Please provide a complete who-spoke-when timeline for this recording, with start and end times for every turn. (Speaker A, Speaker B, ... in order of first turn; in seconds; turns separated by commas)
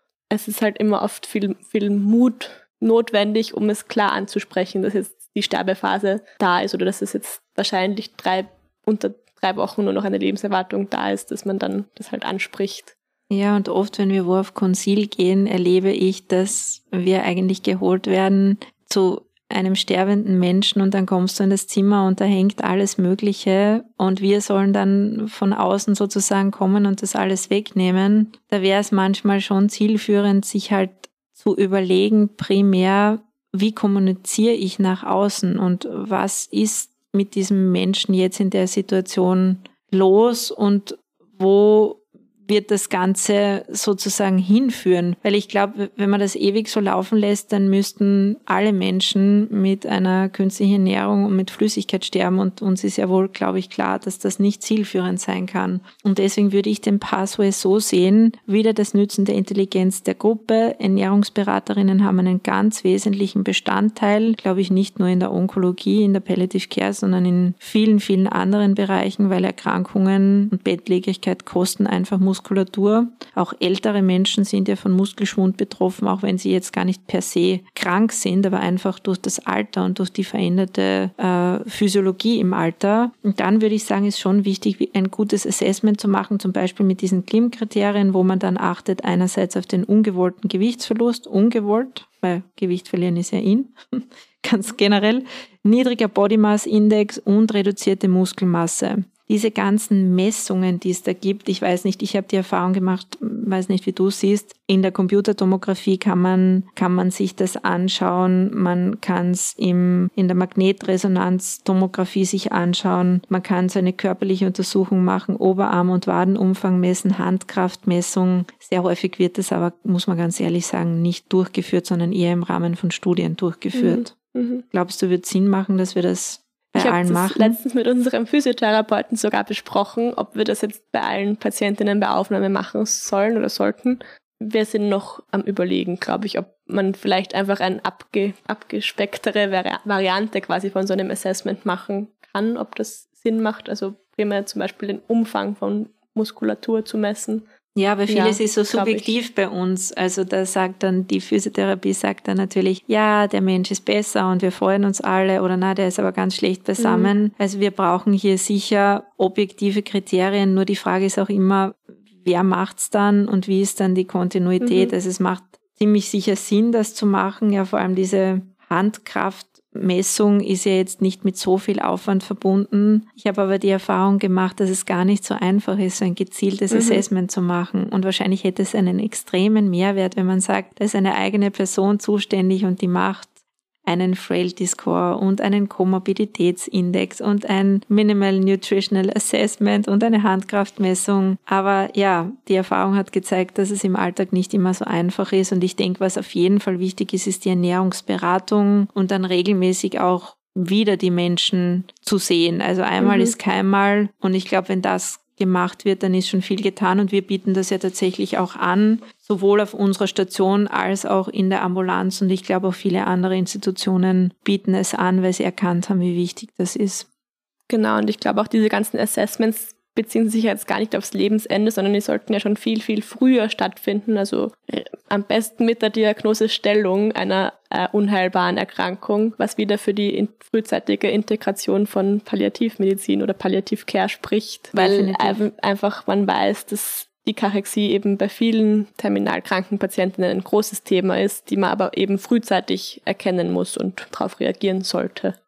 Speaker A: 0.3-12.9, Speaker B: 13.3-124.2, Speaker A: 123.7-124.6, Speaker B: 124.7-127.6, Speaker A: 126.8-147.4, Speaker B: 147.8-183.3, Speaker A: 148.1-149.1, Speaker A: 156.8-157.1, Speaker A: 164.6-164.9, Speaker A: 176.7-177.0, Speaker B: 183.8-217.1, Speaker A: 203.0-203.3, Speaker A: 217.7-245.4, Speaker B: 234.7-235.4